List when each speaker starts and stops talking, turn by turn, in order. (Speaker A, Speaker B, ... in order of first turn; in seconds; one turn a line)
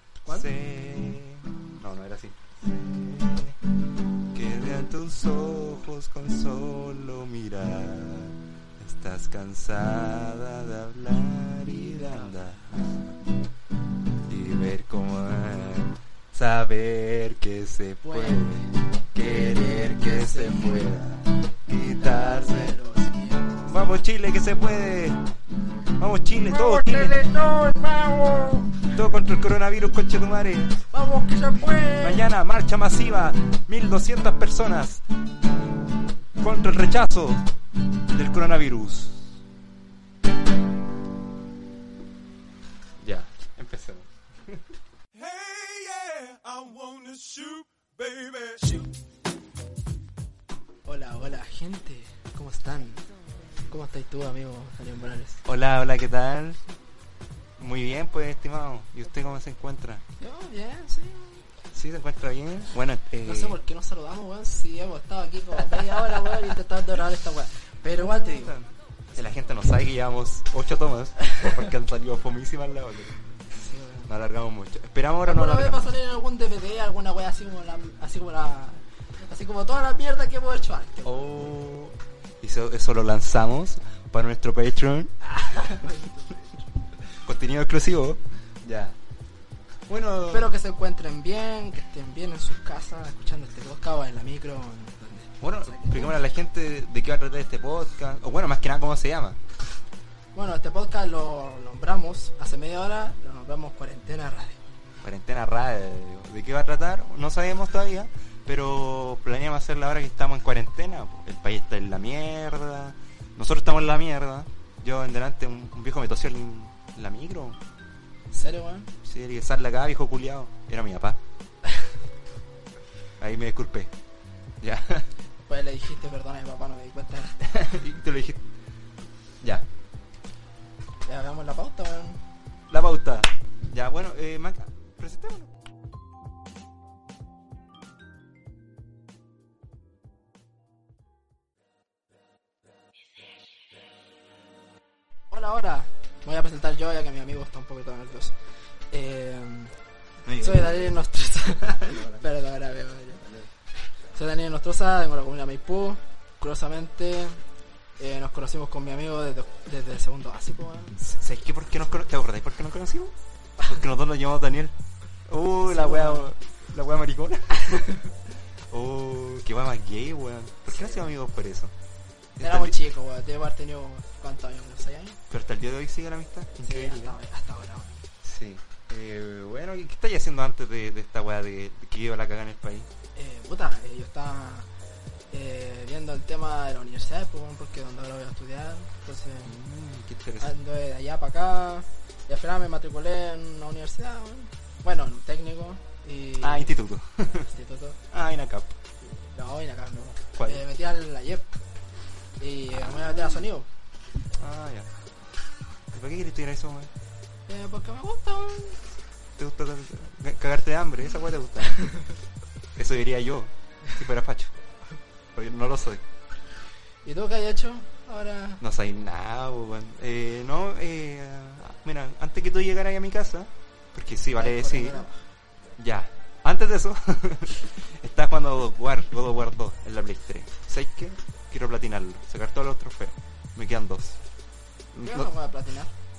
Speaker A: 0.2-0.5
Speaker B: 0.3-3.6
Speaker B: 4.3-13.2
Speaker A: 11.7-12.7
Speaker B: 14.3-22.8
Speaker A: 18.0-18.6
Speaker A: 19.1-20.9
Speaker A: 22.0-24.0
Speaker B: 23.7-25.2
Speaker B: 25.9-27.2
Speaker A: 26.4-28.9
Speaker B: 28.9-30.8
Speaker A: 30.9-32.3
Speaker B: 32.0-35.0
Speaker B: 36.4-37.4
Speaker B: 38.1-39.4
Speaker B: 43.0-44.6
Speaker C: 45.1-48.9
Speaker A: 50.8-53.1
Speaker A: 53.6-55.4
Speaker B: 55.4-56.6
Speaker B: 57.6-60.0
Speaker A: 60.2-61.5
Speaker B: 61.7-63.6
Speaker A: 63.2-68.6
Speaker B: 67.9-73.2
Speaker A: 73.5-74.1
Speaker B: 74.1-75.9
Speaker A: 75.2-81.3
Speaker B: 81.0-85.2
Speaker A: 85.2-86.7
Speaker B: 87.2-89.0
Speaker B: 89.9-90.5
Speaker A: 90.3-96.2
Speaker B: 95.4-99.4
Speaker A: 100.3-104.6
Speaker B: 105.0-117.6
Speaker A: 118.3-118.9
Speaker B: 119.0-121.2
Speaker B: 123.2-123.9
Speaker B: 124.6-125.1
Speaker A: 125.5-127.4
Speaker B: 127.4-128.4
Speaker A: 131.0-132.2
Speaker B: 132.7-135.5
Speaker A: 145.3-148.3
Speaker A: 148.9-149.7
Speaker B: 150.2-151.0
Speaker A: 150.4-153.2
Speaker B: 151.6-152.2
Speaker A: 154.1-157.4
Speaker A: 158.0-161.0
Speaker B: 161.0-164.7
Speaker B: 165.3-168.0
Speaker A: 165.7-166.3
Speaker B: 168.7-171.7
Speaker A: 170.7-171.1
Speaker B: 172.3-172.8
Speaker A: 172.4-175.2
Speaker B: 175.3-177.2
Speaker A: 176.6-178.1
Speaker B: 178.2-182.9
Speaker A: 183.1-184.7
Speaker A: 185.3-189.6
Speaker B: 189.4-190.5
Speaker A: 190.4-196.8
Speaker B: 196.4-197.5
Speaker A: 197.5-198.0
Speaker B: 198.1-198.8
Speaker A: 199.0-201.5
Speaker B: 200.3-200.6
Speaker A: 202.4-203.7
Speaker B: 202.7-203.4
Speaker B: 204.3-204.9
Speaker B: 205.9-206.9
Speaker A: 207.5-208.8
Speaker B: 209.4-211.9
Speaker B: 212.8-214.5
Speaker B: 215.3-216.0
Speaker A: 217.0-218.6
Speaker B: 218.6-225.1
Speaker A: 224.3-225.2
Speaker B: 225.8-234.2
Speaker B: 234.9-235.3
Speaker A: 235.0-235.9